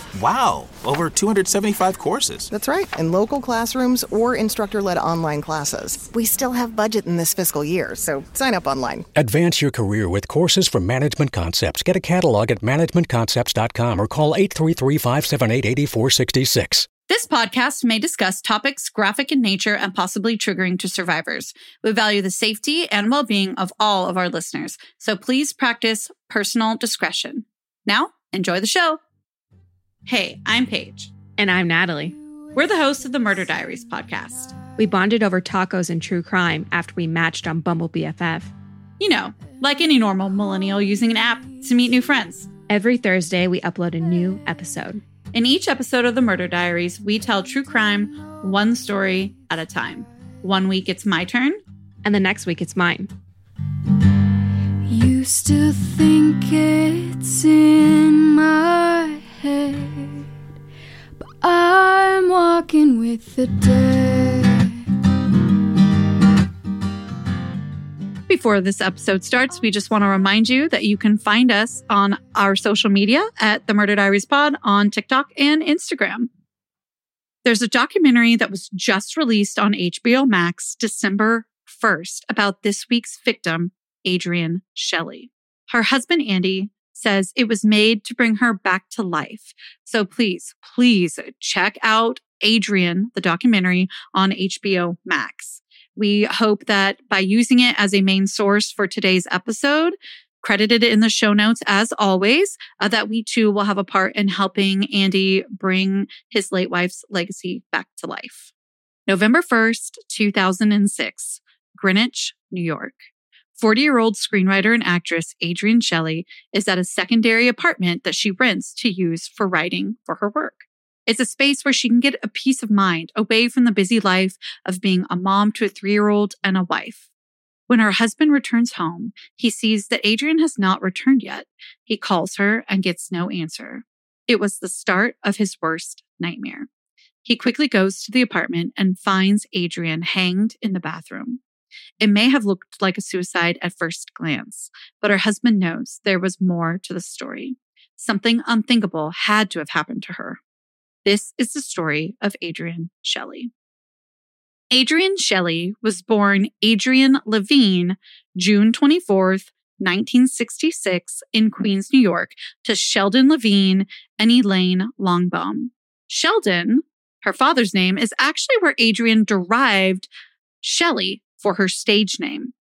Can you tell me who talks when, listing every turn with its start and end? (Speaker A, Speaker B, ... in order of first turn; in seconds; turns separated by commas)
Speaker A: 0.1-2.5, Speaker B: 2.5-9.1, Speaker C: 9.2-16.9, Speaker D: 17.1-29.0, Speaker D: 30.1-31.1, Speaker E: 31.4-32.1, Speaker D: 32.5-34.5, Speaker E: 34.8-38.5, Speaker D: 39.0-42.5, Speaker E: 42.7-45.0, Speaker D: 45.3-51.6, Speaker E: 52.0-53.1, Speaker F: 54.9-60.2, Speaker F: 61.4-64.8, Speaker D: 68.3-76.3, Speaker D: 77.4-108.5, Speaker D: 109.1-113.0, Speaker D: 113.5-127.0, Speaker D: 127.7-136.7, Speaker D: 137.2-141.4, Speaker D: 142.0-150.4, Speaker D: 151.0-153.5, Speaker D: 154.7-170.1, Speaker D: 170.6-172.5